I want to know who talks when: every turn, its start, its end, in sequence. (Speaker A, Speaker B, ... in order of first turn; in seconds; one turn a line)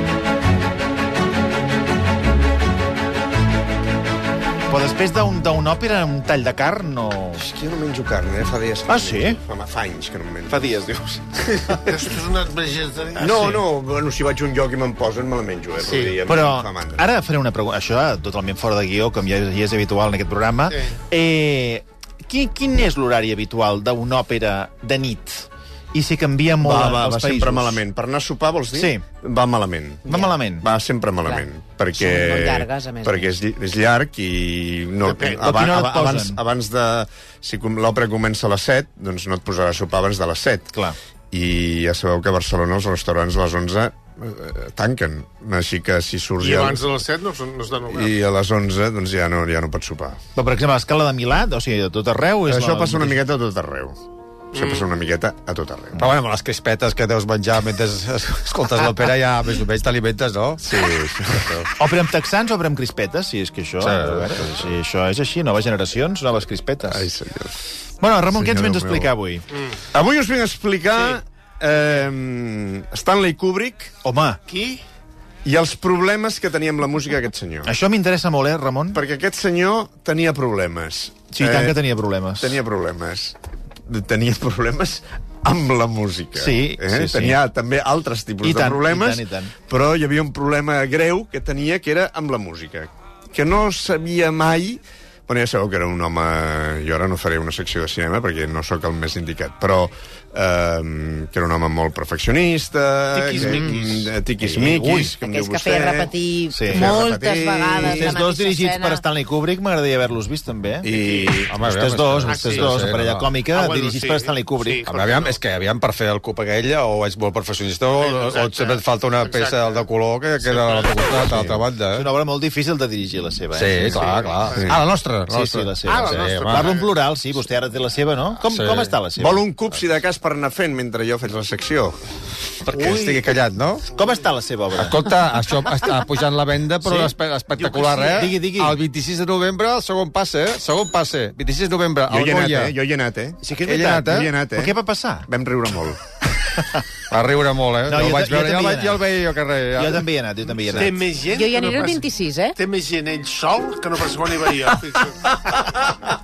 Speaker A: 4.7-7.4
Speaker B: 7.4-10.7
Speaker A: 8.9-9.4
Speaker A: 10.5-11.5
Speaker B: 11.3-11.9
Speaker C: 11.8-13.5
Speaker B: 13.2-17.1
Speaker C: 15.8-16.2
Speaker A: 16.2-27.8
Speaker C: 20.7-21.0
Speaker B: 26.6-40.7
Speaker A: 28.7-29.0
Speaker D: 30.1-30.3
Speaker A: 30.1-30.7
Speaker D: 31.9-33.3
Speaker C: 35.0-35.5
Speaker A: 35.4-36.4
Speaker B: 41.3-46.8
Speaker C: 46.4-48.1
Speaker B: 47.9-50.2
Speaker A: 50.3-53.2
Speaker B: 52.5-54.0
Speaker C: 54.5-54.9
Speaker B: 54.5-56.1
Speaker E: 56.0-60.7
Speaker B: 60.6-61.6
Speaker E: 61.4-61.7
Speaker A: 61.8-67.1
Speaker E: 63.8-64.7
Speaker B: 66.8-67.6
Speaker A: 68.0-69.4
Speaker B: 68.3-69.1
Speaker C: 69.5-69.8
Speaker B: 69.9-74.0
Speaker A: 74.0-74.4
Speaker C: 74.5-74.8
Speaker B: 75.4-77.7
Speaker A: 77.6-79.0
Speaker B: 78.9-81.8
Speaker A: 81.3-82.6
Speaker B: 82.4-106.1
Speaker A: 86.3-87.4
Speaker A: 88.4-89.5
Speaker A: 103.1-105.1
Speaker D: 105.2-109.0
Speaker A: 106.5-107.0
Speaker B: 106.7-108.1
Speaker A: 107.8-110.9
Speaker B: 110.8-111.5
Speaker C: 110.9-111.4
Speaker E: 111.5-113.3
Speaker A: 111.6-114.8
Speaker C: 112.2-112.9
Speaker C: 113.5-115.4
Speaker E: 114.8-122.1
Speaker C: 118.0-119.9
Speaker C: 120.4-121.3
Speaker A: 121.4-124.5
Speaker E: 123.5-126.8
Speaker C: 123.9-124.7
Speaker A: 125.3-129.4
Speaker C: 125.8-126.9
Speaker E: 128.4-128.9
Speaker B: 129.2-132.0
Speaker E: 132.6-133.8
Speaker A: 132.7-133.3
Speaker A: 133.9-135.0
Speaker E: 134.8-142.7
Speaker A: 136.8-138.8
Speaker B: 142.1-146.0
Speaker A: 143.4-145.3
Speaker E: 143.7-144.3
Speaker E: 147.1-150.1
Speaker A: 147.9-149.1
Speaker A: 149.7-151.0
Speaker C: 150.7-155.3
Speaker D: 151.3-152.5